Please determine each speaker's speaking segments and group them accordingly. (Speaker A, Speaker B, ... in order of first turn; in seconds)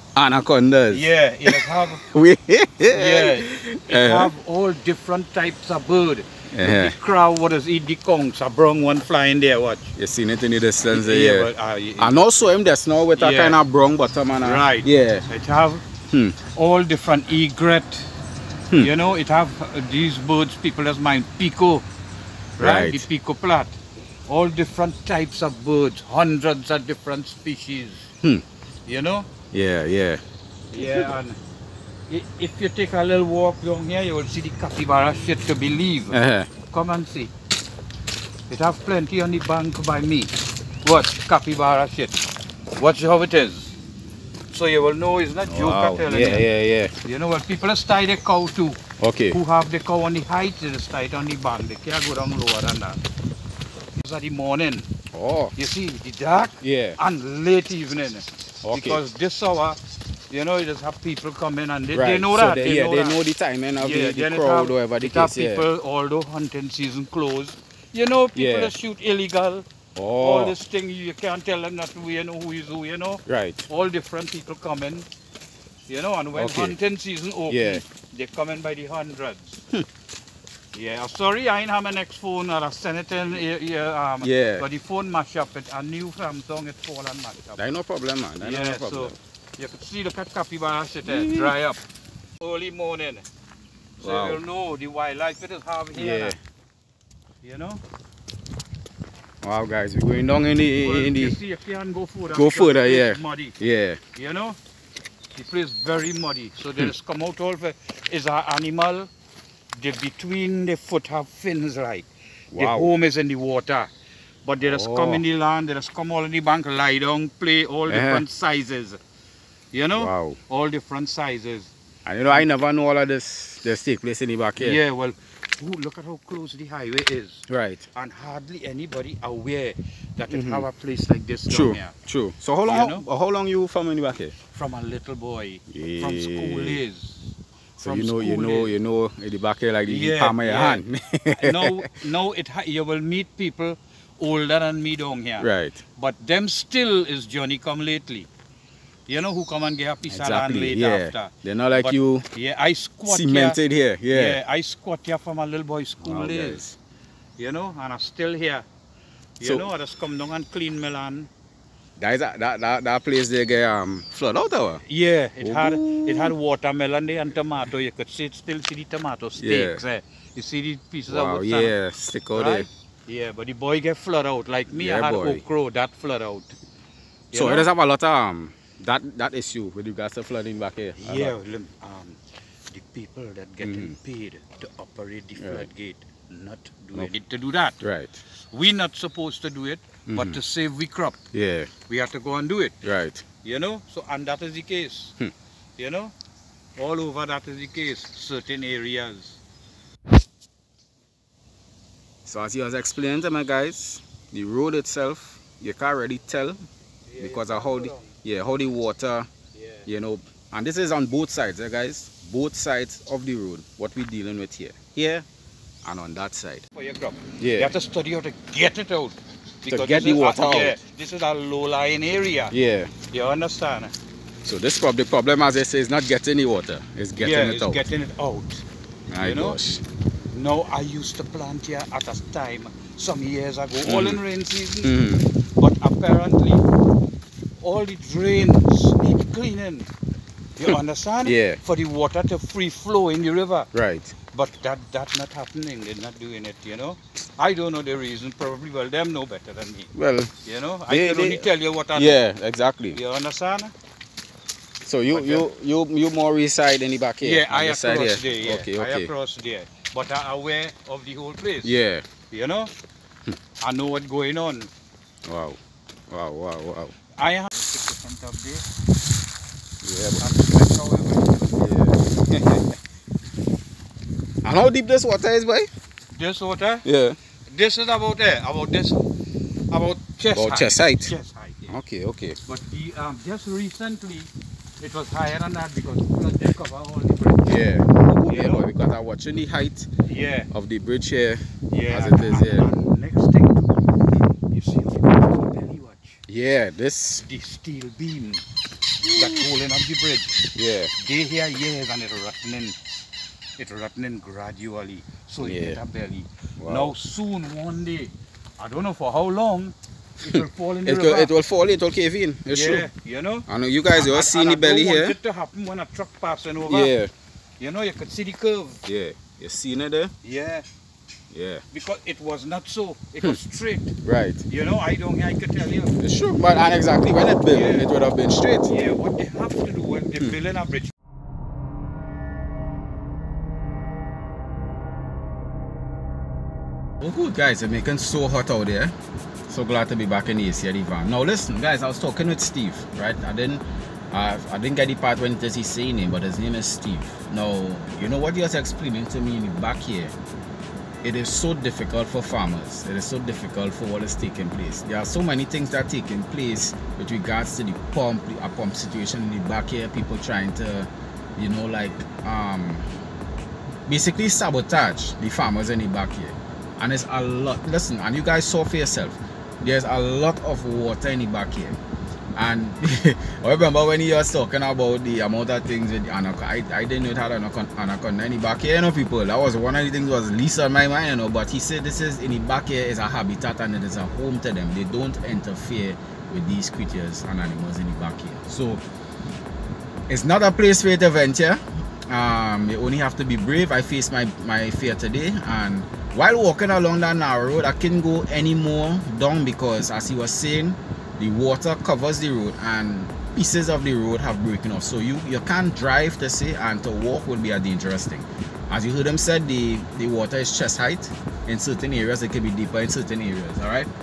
Speaker A: 0.1-4.3, 6.5-6.9, 9.9-15.2, 16.1-16.4, 22.6-23.1, 29.5-30.2, 30.7-31.1, 36.1-36.5, 45.4-46.9, 49.0-49.4, 55.1-55.5, 56.5-57.0, 58.6-59.0, 61.9-65.7, 68.3-68.7, 70.0-70.5, 73.2-73.6, 76.3-76.8, 77.5-77.8, 84.2-84.7, 87.5-89.1, 91.0-91.5, 94.0-94.4, 95.9-96.4, 99.4-101.4, 102.3-104.0, 112.5-112.9, 114.6-115.2, 117.9-118.2, 120.0-120.4, 122.0-124.8, 127.5-127.9, 130.3-130.7, 131.5-134.3, 135.7-136.8, 137.8-141.9, 145.4-145.8, 150.1-152.2, 153.1-154.4, 156.0-156.8, 159.4-159.7, 162.0-164.8, 165.4-166.3, 169.3-169.8, 171.1-172.7, 174.7-175.4, 177.3-181.3, 183.6-183.9, 185.4-185.7, 187.8-188.2, 190.1-190.4, 191.3-191.7, 192.8-193.2, 202.2-206.6, 207.2-209.3, 209.8-215.2, 215.8-216.6, 217.4-217.8, 219.7-220.8, 222.5-222.9, 224.4-227.8, 229.1-229.8, 233.8-234.2, 234.8-235.3, 240.7-241.6, 243.7-244.1, 249.9-250.3, 250.9-253.0, 254.8-259.1, 261.6-262.1, 265.2-266.9, 269.8-270.3, 271.6-272.8, 274.4-275.7, 276.8-277.2, 280.3-281.1, 281.7-282.4, 287.4-289.9, 290.5-292.7, 296.3-297.2, 299.1-299.4, 300.5-300.9, 305.4-305.8, 306.6-306.9, 310.3-312.9, 313.5-315.1, 316.6-317.1, 318.9-320.1, 321.3-321.6, 324.0-324.4, 326.0-328.7, 337.0-338.9, 339.4-350.1, 351.0-362.9, 363.9-371.8, 372.4-388.8, 390.1-413.9
Speaker B: 0.9-2.0, 2.9-9.9, 10.9-12.1, 13.2-13.6, 14.4-15.8, 16.5-18.1, 18.8-21.9, 22.6-23.8, 24.3-28.1, 28.9-29.3, 30.7-31.4, 32.1-36.2, 36.7-37.3, 38.5-40.3, 40.8-42.2, 42.8-43.8, 44.5-46.5, 47.0-48.8, 49.3-53.0, 54.0-54.9, 55.5-59.8, 60.3-63.2, 63.8-69.7, 70.2-75.1, 75.9-79.6, 80.7-87.7, 88.4-91.8, 92.4-93.2, 94.0-96.4, 97.4-97.8, 100.8-103.5, 104.1-104.6, 105.3-109.1, 109.7-113.9, 114.4-119.0, 119.7-121.7, 124.6-131.9, 132.7-133.0, 134.4-137.3, 137.8-138.8, 139.8-148.3, 149.1-153.6, 154.1-156.6, 157.4-158.6, 159.4-161.3, 164.8-171.7, 172.3-176.5, 177.3-177.7, 181.0-187.8, 188.5-191.2, 191.9-192.8, 193.4-195.1, 195.8-196.1, 196.8-199.4, 207.1-208.1, 209.5-209.8, 216.7-222.5, 223.1-223.9, 227.2-228.6, 229.2-229.6, 230.3-234.9, 235.6-236.7, 237.6-239.9, 240.6-243.7, 244.3-249.9, 250.4-252.2, 252.9-253.7, 255.1-255.5, 257.2-261.8, 262.3-262.7, 263.6-264.7, 267.2-268.6, 270.2-271.8, 276.1-276.9, 277.5-279.1, 279.7-281.7, 282.4-288.6, 290.1-290.5, 291.7-296.2, 297.2-298.4, 299.0-300.4, 301.0-302.8, 303.6-311.3, 312.5-316.9, 317.6-318.8, 320.2-320.6, 321.7-323.9, 324.5-325.9, 327.4-327.9, 328.7-330.9